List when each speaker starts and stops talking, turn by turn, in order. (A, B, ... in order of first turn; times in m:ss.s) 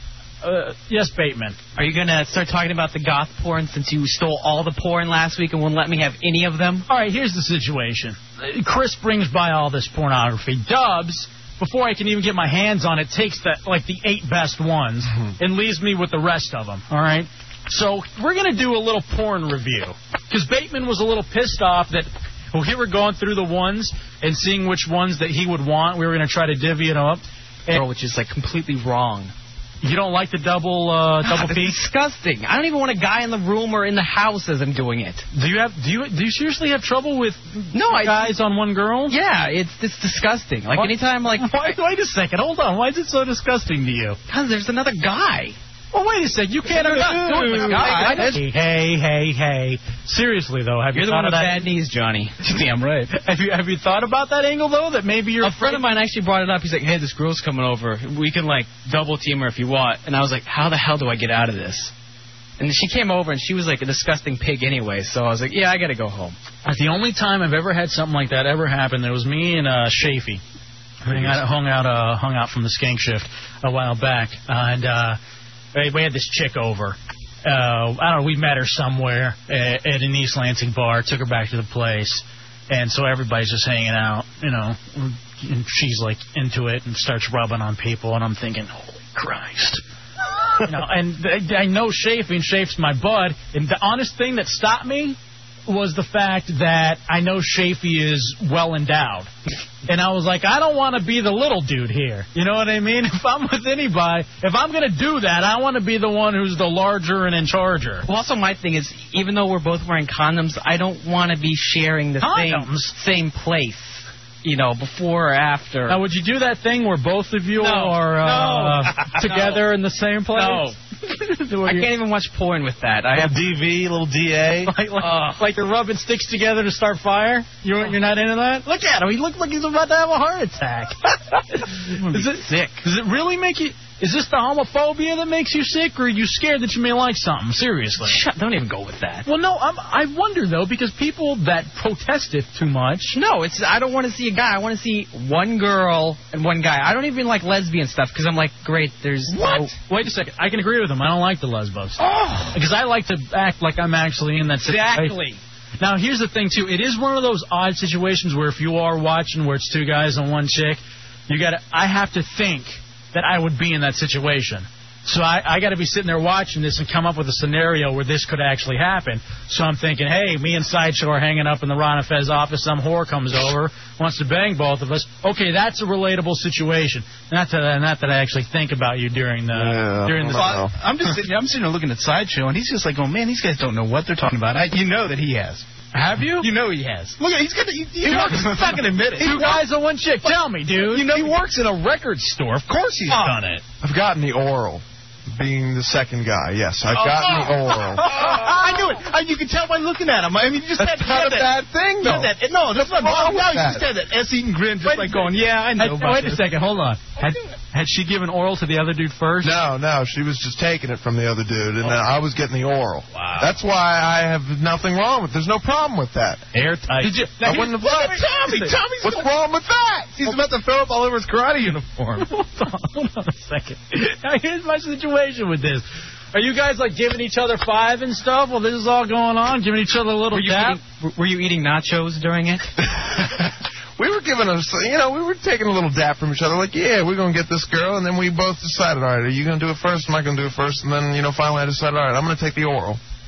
0:00.4-0:01.6 A
0:01.8-0:06.8 B
0:06.9-0:27.8 A
0:27.7-0:29.3 B
0:29.8-0:31.8 A
0:31.2-0:35.2 B
0:35.3-0:39.2 A
0:37.7-0:38.3 B
0:39.1-0:41.6 B
0:40.7-0:44.2 A
0:44.3-0:45.6 B
0:45.9-0:51.7 A
0:46.8-0:48.4 B
0:46.8-0:48.4 C
0:50.9-0:52.4 B
0:52.4-0:53.1 C
0:53.1-0:55.8 A
0:55.4-1:01.9 B
1:02.6-1:06.4 B
1:06.6-1:10.4 A
1:11.0-1:15.2 A
1:15.7-1:29.8 A
1:30.6-1:39.3 A
1:39.9-1:48.1 A
1:48.0-1:56.0 B
1:52.2-1:52.9 A
1:55.9-2:00.8 A
1:57.6-1:59.6 B
2:00.3-2:00.7 B
2:01.4-2:01.9 A
2:01.5-2:03.4 B
2:03.1-2:04.7 D
2:04.7-2:18.2 A
2:12.1-2:12.8 B
2:18.0-2:19.3 B
2:19.2-2:23.2 A
2:23.1-2:29.8 B
2:29.3-2:35.3 A
2:32.0-2:32.6 B
2:34.6-2:35.4 B
2:35.8-3:00.6 A
2:59.5-3:00.7 E
3:00.2-3:05.7 C
3:05.9-3:06.5 A
3:06.2-3:09.7 C
3:08.0-3:11.4 A
3:10.8-3:11.7 C
3:12.6-3:13.6 D
3:13.8-3:18.2 E
3:16.9-3:26.4 C
3:18.0-3:18.6 A
3:20.8-3:23.8 E
3:24.8-3:29.6 A
3:29.4-3:36.5 E
3:33.1-3:33.5 D
3:36.6-3:37.1 D
3:36.9-3:38.7 A
3:37.2-3:39.2 C
3:37.4-3:40.4 E
3:40.3-3:42.3 D
3:42.2-3:50.8 A
3:50.3-3:52.7 B
3:53.0-3:53.4 E
3:54.0-4:03.0 E